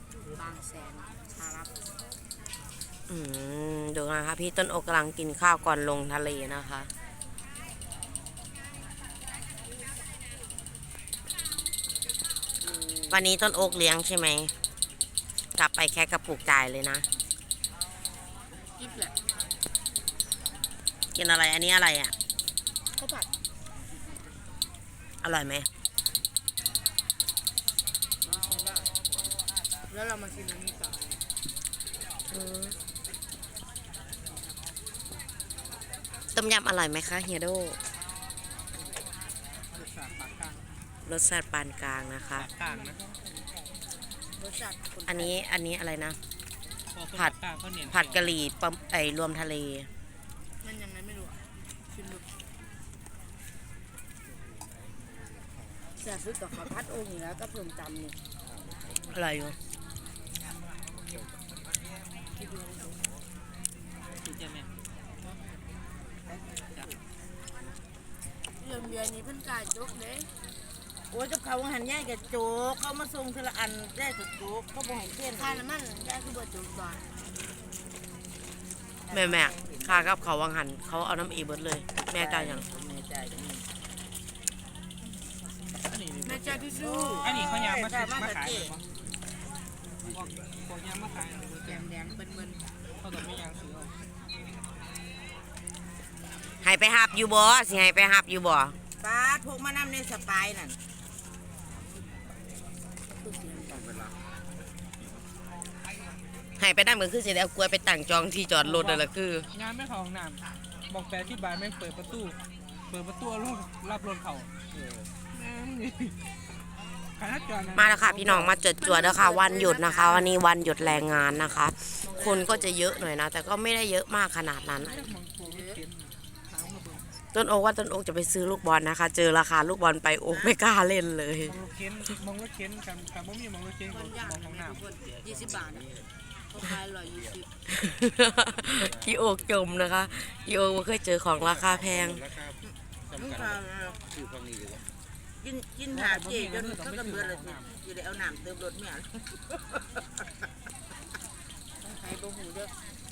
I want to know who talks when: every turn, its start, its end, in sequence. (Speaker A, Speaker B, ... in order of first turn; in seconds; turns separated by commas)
Speaker A: 0.3-1.7, Speaker B: 3.1-6.9, Speaker A: 12.8-13.1, Speaker B: 13.1-14.5, Speaker B: 15.6-17.1, Speaker A: 18.8-19.1, Speaker B: 21.1-22.1, Speaker A: 23.0-23.3, Speaker B: 25.2-25.7, Speaker A: 28.2-28.9, Speaker A: 29.9-31.2, Speaker B: 32.3-32.8, Speaker B: 36.3-37.8, Speaker C: 39.7-40.6, Speaker B: 41.0-42.5, Speaker C: 42.4-43.0, Speaker A: 44.4-45.4, Speaker B: 45.1-46.2, Speaker C: 46.9-48.3, Speaker B: 47.9-49.9, Speaker A: 50.6-52.3, Speaker A: 56.0-58.2, Speaker B: 59.1-59.5, Speaker A: 62.4-63.0, Speaker C: 64.2-64.7, Speaker A: 68.6-70.3, Speaker D: 71.1-75.6, Speaker A: 75.3-77.1, Speaker D: 79.1-80.1, Speaker B: 79.1-82.7, Speaker D: 82.1-83.7, Speaker C: 85.9-86.6, Speaker A: 86.2-87.3, Speaker D: 86.8-88.8, Speaker C: 87.2-88.8, Speaker C: 90.1-91.9, Speaker A: 91.6-92.7, Speaker C: 93.0-93.9, Speaker B: 96.6-98.8, Speaker D: 99.0-100.8, Speaker A: 103.1-103.9, Speaker B: 106.6-109.5, Speaker C: 108.6-112.4, Speaker C: 112.9-114.5, Speaker C: 115.3-116.2, Speaker C: 117.2-118.6, Speaker B: 117.8-125.0, Speaker A: 118.8-120.3, Speaker A: 122.0-123.0, Speaker C: 124.8-127.1, Speaker A: 125.4-125.8, Speaker B: 127.3-131.6, Speaker C: 131.5-134.8, Speaker A: 133.9-135.9, Speaker A: 136.5-137.5, Speaker B: 137.7-142.3, Speaker D: 142.6-144.0, Speaker D: 145.4-150.1, Speaker C: 145.9-147.7, Speaker A: 151.8-152.7